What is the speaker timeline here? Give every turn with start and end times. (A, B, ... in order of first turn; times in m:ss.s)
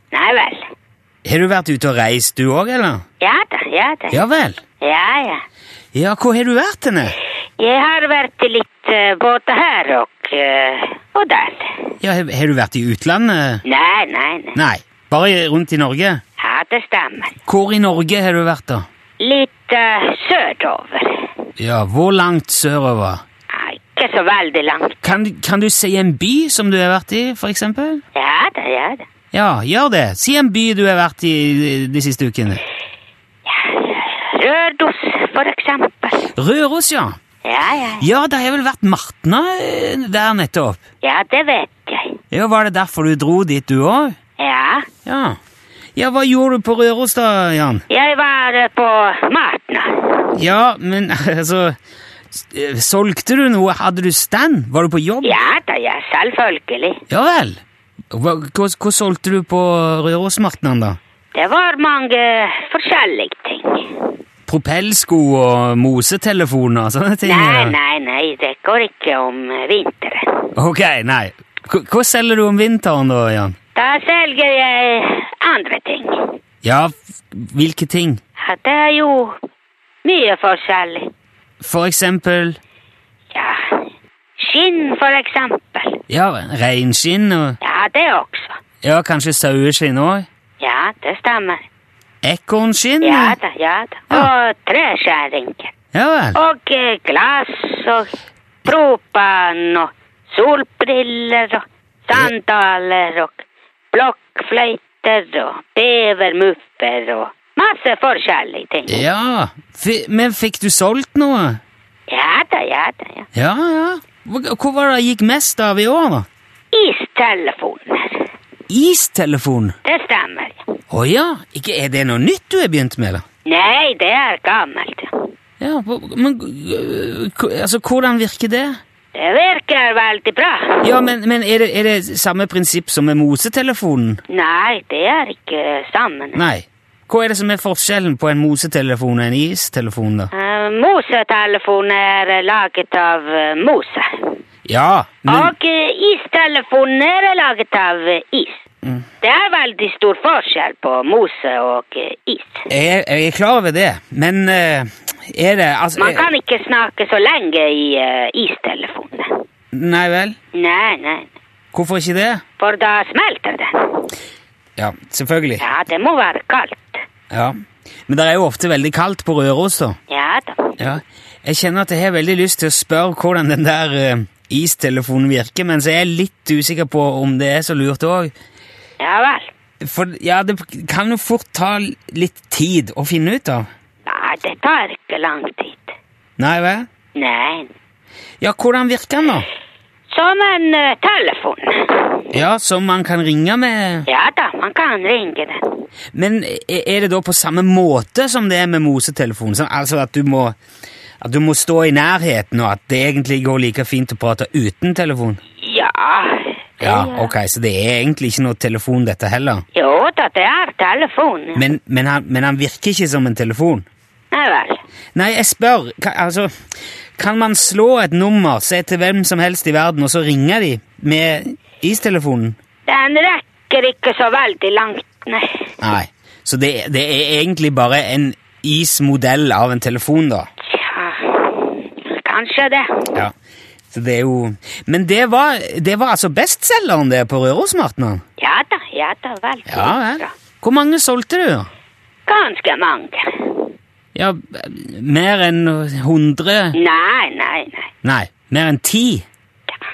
0:00.1-0:00.6 A
0:01.2-0:03.0 B
0:03.2-0:04.2 A
0:04.1-0:04.6 B
0:04.8-0:05.4 A
0:05.9-0:07.2 B
0:07.6-0:11.9 A
0:12.0-0:13.6 B
0:13.6-0:14.6 A
0:14.5-0:16.2 B
0:16.4-0:17.4 A
0:17.4-0:18.8 B
0:19.2-0:21.3 A
0:21.6-0:23.2 B
0:23.5-0:25.0 A
0:25.0-0:28.0 B
0:28.1-0:29.0 A
0:29.3-0:32.6 B
0:33.4-0:36.2 A
0:36.3-0:37.2 B
0:37.4-0:38.0 A
0:38.0-0:40.8 B
0:41.0-0:42.1 A
0:42.3-0:44.1 B
0:44.4-0:44.9 A
0:45.0-0:45.4 B
0:46.0-0:47.8 B
0:47.9-0:50.3 A
0:50.3-0:51.8 B
0:52.3-0:55.4 B
0:55.2-0:57.0 A
0:57.1-0:57.6 B
0:58.1-1:01.0 B
1:01.3-1:04.1 A
1:04.5-1:07.7 B
1:07.2-1:10.5 A
1:10.6-1:13.6 B
1:13.7-1:16.3 A
1:16.6-1:18.2 B
1:18.4-1:19.4 A
1:20.0-1:21.1 A
1:21.6-1:22.6 B
1:23.3-1:23.8 A
1:24.4-1:26.0 A
1:26.1-1:27.6 B
1:27.6-1:28.6 A
1:28.8-1:30.3 B
1:30.6-1:31.6 A
1:32.2-1:33.4 B
1:33.0-1:35.7 A
1:35.9-1:36.4 B
1:36.3-1:38.1 A
1:38.6-1:49.0 A
1:48.9-1:51.6 B
1:52.1-1:53.3 A
1:53.3-1:56.2 B
1:56.7-1:58.2 A
1:58.7-1:59.7 B
1:59.8-2:00.6 A
2:00.9-2:03.2 B
2:03.4-2:05.3 A
2:05.6-2:08.8 B
2:09.1-2:10.9 A
2:10.8-2:14.2 B
2:14.3-2:16.4 A
2:16.3-2:20.3 B
2:20.3-2:24.4 A
2:24.6-2:25.5 B
2:25.3-2:28.6 A
2:29.2-2:32.7 A
2:32.7-2:36.3 B
2:36.0-2:39.4 A
2:39.7-2:40.4 B
2:40.5-2:41.3 A
2:41.7-2:42.4 B
2:42.6-2:44.1 A
2:44.8-2:45.6 B
2:45.6-2:47.0 A
2:47.3-2:47.6 B
2:48.1-2:50.0 B
2:50.1-2:50.8 A
2:50.8-2:58.3 B
2:59.0-2:59.5 A
2:59.8-3:03.7 B
3:04.0-3:05.9 A
3:06.4-3:06.9 B
3:07.2-3:07.7 A
3:08.4-3:09.5 B
3:10.1-3:12.2 A
3:12.3-3:14.1 B
3:14.0-3:15.8 A
3:16.1-3:20.5 B
3:21.2-3:25.4 B
3:25.6-3:27.3 A
3:26.8-3:29.6 B
3:29.7-3:31.6 A
3:31.5-3:33.9 B
3:34.3-3:34.8 A
3:35.1-3:36.5 B
3:37.2-3:42.6 B
3:42.9-3:45.7 A
3:45.8-3:50.5 B
3:50.7-3:53.1 A
3:53.9-3:58.2 B
3:58.4-4:00.3 A
3:59.7-4:01.7 B
4:02.3-4:03.7 A
4:04.1-4:06.8 B
4:06.7-4:07.9 A
4:08.0-4:09.2 B